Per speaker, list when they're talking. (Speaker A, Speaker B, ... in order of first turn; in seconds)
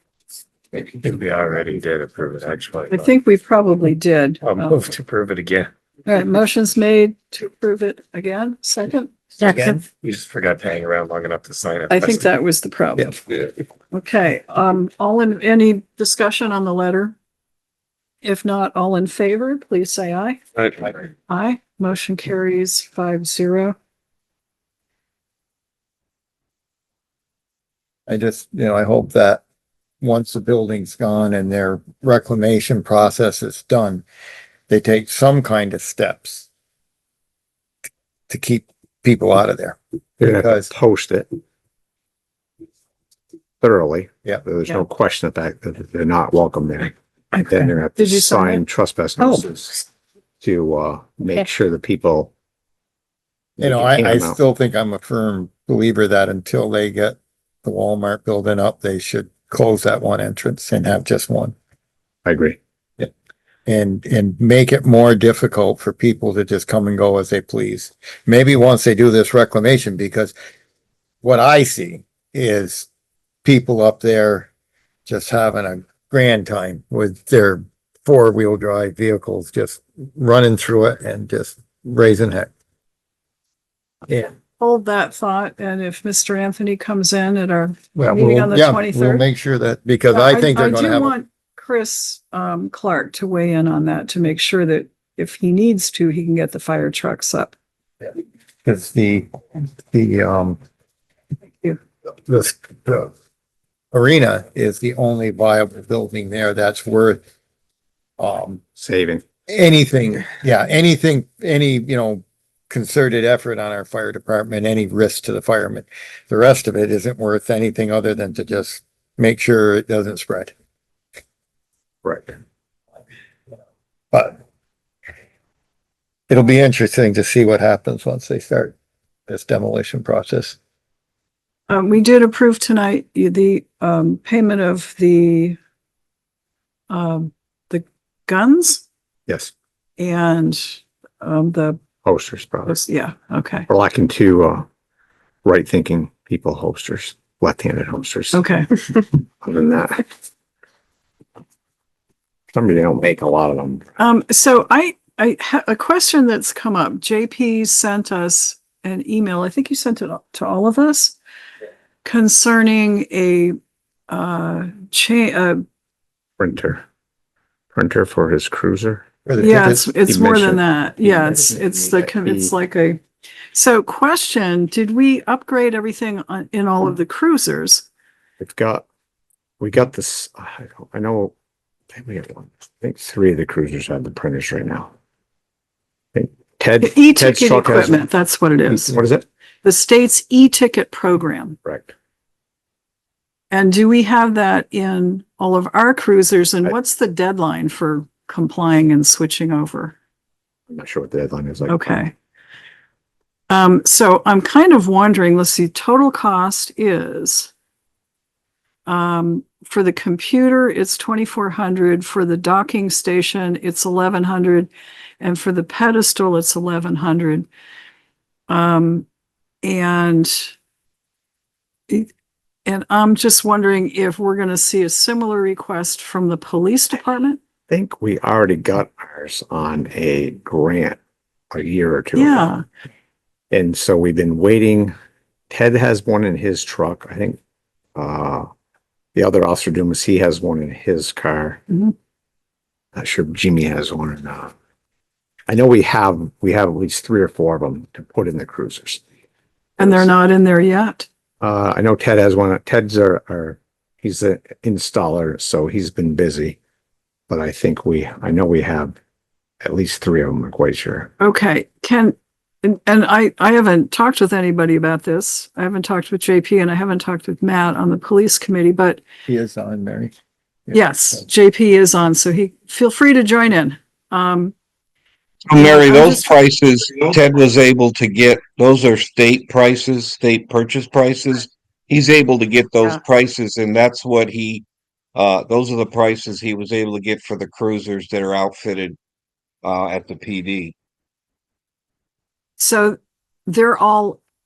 Speaker A: 0.7-3.1, 4.4-5.7, 9.6-12.2
Speaker B: 2.9-4.8, 6.1-9.1, 11.9-13.2, 13.9-17.1, 18.2-20.4, 21.3-23.8, 47.3-48.6, 84.6-89.2, 90.1-97.5, 131.7-135.6, 136.9-138.8, 140.0-141.8, 142.7-143.7, 148.3-148.8, 154.0-161.2, 162.0-163.6, 164.1-165.6, 169.4-173.0, 173.5-177.8, 186.8-188.9, 189.6-191.6, 193.5-200.0, 201.7-202.1, 203.5-207.5, 208.8-217.5, 218.5-219.1, 219.6-220.5, 222.6-227.4, 232.1-232.6, 249.8-251.1, 261.2-269.0, 270.7-274.5, 275.6-276.3, 292.6-294.2
Speaker C: 9.5-9.8, 28.1-29.4, 30.0-34.0, 34.7-36.5, 38.3-40.7, 53.6-61.5, 63.6-70.3, 71.2-72.9, 73.4-74.5, 75.0-82.5, 88.0-91.1, 98.6-100.6, 102.2-103.1, 103.9-107.2, 108.2-108.6, 109.5-120.5, 124.1-124.4, 126.3-128.7, 129.3-130.6, 169.2-169.8, 269.3-270.1, 270.7-271.2
Speaker D: 40.2-41.3, 43.6-49.9, 50.4-52.3, 53.6-54.4, 62.2-62.6, 108.8-109.2, 122.0-122.3, 139.3-139.5, 142.0-142.8, 143.7-144.7, 145.4-148.4, 149.4-150.1, 152.5-154.0, 166.4-166.8, 167.7-172.5, 178.4-178.8, 179.6-181.3, 181.9-184.9, 186.1-188.0, 188.7-189.2, 191.6-191.9, 200.7-202.0, 227.7-231.0, 231.5-232.5, 233.5-234.9, 235.5-237.4, 237.9-238.5, 239.1-241.6, 242.9-244.5, 245.5-249.0, 249.8-250.1, 251.4-256.6, 257.3-258.9, 259.6-261.1
Speaker E: 275.4-289.0, 289.6-290.7